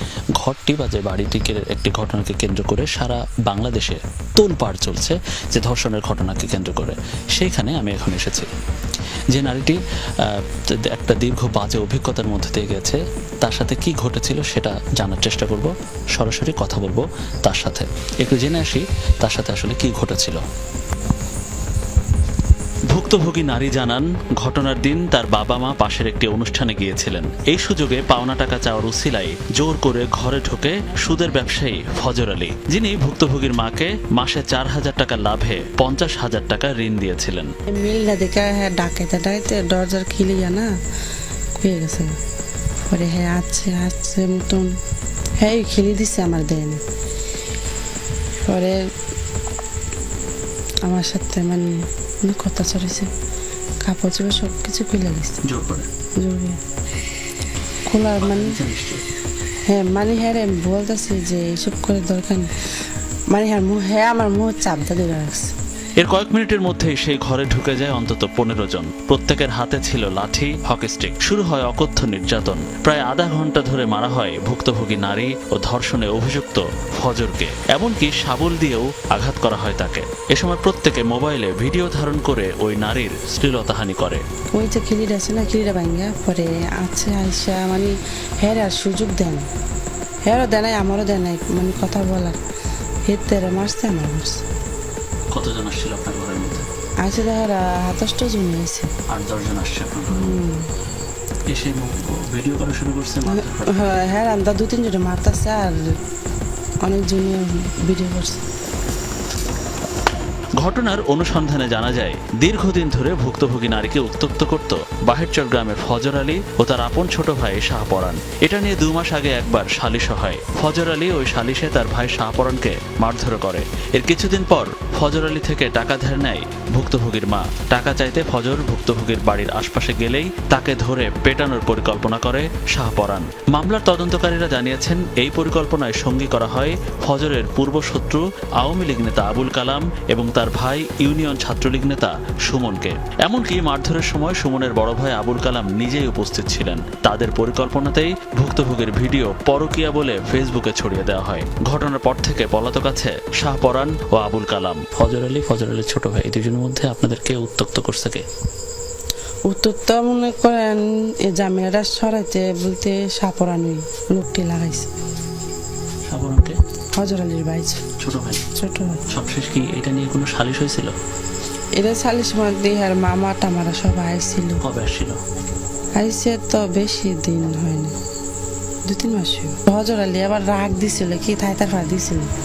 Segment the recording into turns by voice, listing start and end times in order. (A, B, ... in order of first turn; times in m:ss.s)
0:00.4-0:08.5 A
0:09.3-0:20.4 A
0:22.9-0:37.5 A
0:37.7-0:40.7 B
0:41.6-0:42.1 B
0:42.9-0:44.7 B
0:45.4-0:46.8 B
0:48.4-0:48.8 B
0:50.8-0:53.1 B
0:53.8-0:55.4 B
0:55.4-0:55.9 A
0:56.2-0:56.6 B
0:57.9-0:58.6 B
0:58.2-0:59.0 A
0:59.7-1:02.5 B
1:03.3-1:05.5 B
1:06.0-1:24.2 A
1:24.5-1:29.5 B
1:30.3-1:32.4 B
1:33.1-1:34.4 B
1:35.3-1:36.7 A
1:37.0-1:38.9 B
1:39.1-1:40.4 A
1:40.1-1:40.7 B
1:41.5-1:43.9 A
1:43.2-1:45.8 B
1:46.8-1:48.4 B
1:50.6-2:38.2 A
2:39.5-2:44.9 B
2:46.1-2:46.6 A
2:47.0-2:47.8 B
2:48.0-2:48.4 A
2:48.6-2:49.0 B
2:49.1-2:50.9 A
2:51.8-2:54.6 B
2:54.6-2:55.2 A
2:56.0-2:57.9 B
2:58.9-3:02.3 B